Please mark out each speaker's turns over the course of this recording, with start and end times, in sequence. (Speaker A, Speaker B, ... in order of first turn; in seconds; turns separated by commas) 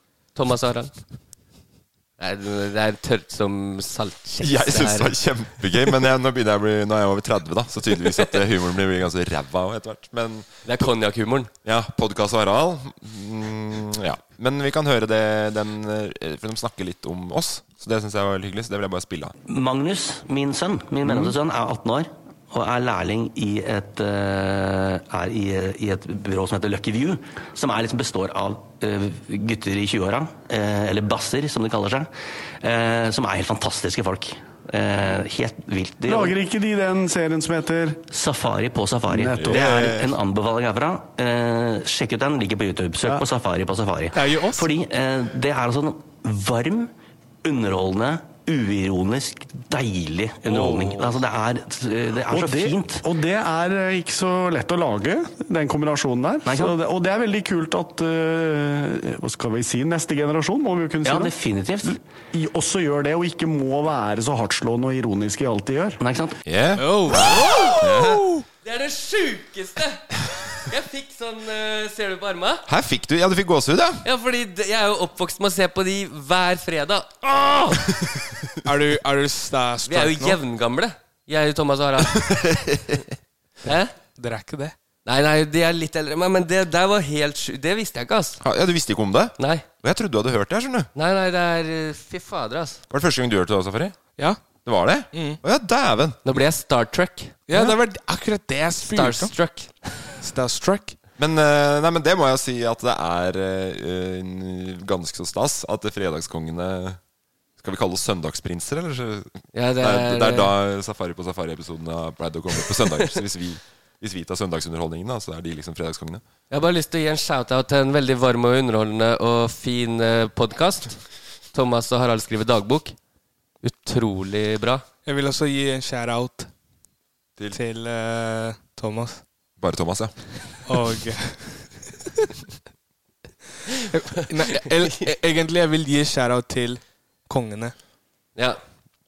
Speaker A: 0.3-0.9, Speaker A: 2.2-5.1, Speaker B: 4.4-10.7, Speaker A: 10.6-11.5, Speaker B: 11.6-19.4, Speaker C: 19.4-36.4, Speaker D: 36.1-38.0, Speaker C: 38.1-46.9, Speaker D: 39.1-39.6, Speaker B: 39.4-40.0, Speaker E: 44.1-44.7, Speaker C: 47.4-53.0, Speaker E: 50.5-51.1, Speaker D: 52.3-66.0, Speaker C: 56.4-56.7, Speaker C: 61.0-62.0, Speaker C: 66.0-66.4, Speaker B: 66.5-68.4, Speaker E: 66.8-67.8, Speaker A: 67.1-68.1, Speaker A: 68.6-70.1, Speaker A: 70.7-72.7, Speaker B: 72.7-74.0, Speaker A: 74.0-77.9, Speaker E: 78.6-80.4, Speaker A: 79.8-82.2, Speaker B: 82.1-83.0, Speaker A: 83.6-83.9, Speaker E: 84.2-84.7, Speaker A: 85.0-88.4, Speaker B: 88.4-90.9, Speaker A: 89.4-89.6, Speaker A: 90.9-92.8, Speaker B: 92.9-94.0, Speaker B: 94.6-96.4, Speaker E: 95.1-95.4, Speaker A: 96.2-97.4, Speaker E: 97.5-99.3, Speaker A: 98.8-100.1, Speaker E: 100.2-101.0, Speaker B: 101.2-107.0, Speaker B: 107.6-116.2, Speaker A: 109.5-110.5, Speaker A: 116.5-121.0, Speaker A: 121.5-123.0, Speaker A: 123.6-124.8, Speaker E: 125.0-126.5, Speaker E: 127.5-129.2, Speaker B: 129.6-130.2, Speaker E: 130.6-132.3, Speaker E: 133.9-137.7, Speaker A: 134.1-135.0